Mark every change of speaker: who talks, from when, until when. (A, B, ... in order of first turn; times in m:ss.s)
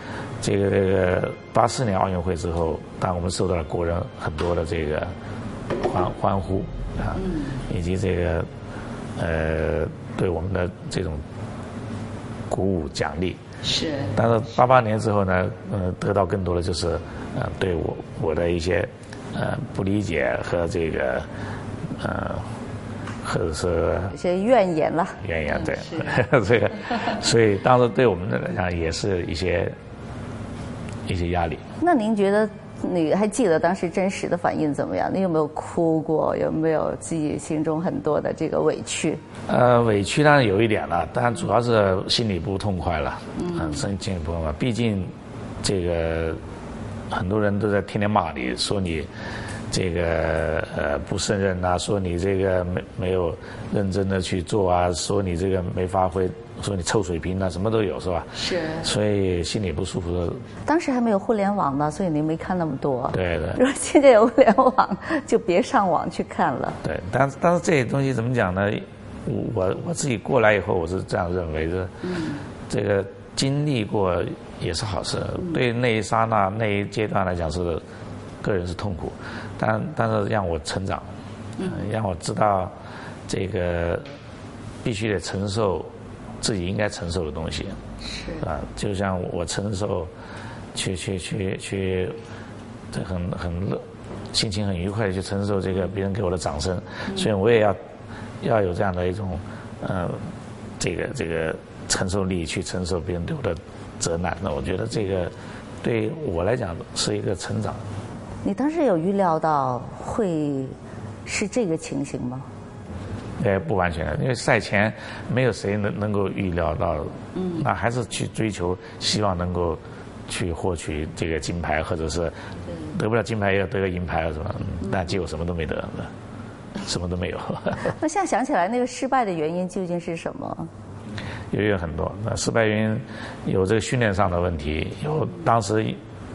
0:00.4-0:05.1 A
0:05.8-0:08.5 A
0:07.2-0:07.6 B
0:09.2-0:11.2 A
0:12.5-0:13.4 A
0:13.6-0:14.2 B
0:14.1-0:21.3 A
0:22.0-0:22.4 A
0:23.2-0:24.1 A
0:24.1-0:26.1 B
0:25.2-0:29.8 A
0:31.1-0:31.6 A
0:31.8-0:39.2 B
0:39.5-0:45.1 A
0:43.4-0:43.9 B
0:45.6-0:46.4 A
0:47.1-0:49.1 A
0:49.7-1:00.4 A
0:58.4-0:58.8 B
1:00.6-1:06.8 B
1:03.1-1:03.6 A
1:06.8-1:11.9 A
1:12.0-1:12.4 B
1:12.7-1:17.8 A
1:18.4-1:22.7 A
1:21.6-1:21.9 B
1:23.3-1:24.0 A
1:24.8-1:27.8 A
1:28.0-1:28.5 B
1:28.4-1:30.1 A
1:30.7-1:32.2 A
1:32.9-1:37.8 A
1:38.4-1:40.2 A
1:40.8-1:47.8 A
1:48.4-1:52.5 B
1:53.4-2:02.3 A
1:57.3-1:57.6 B
2:02.9-2:06.1 A
2:06.8-2:07.9 A
2:07.8-2:10.7 B
2:11.5-2:16.0 A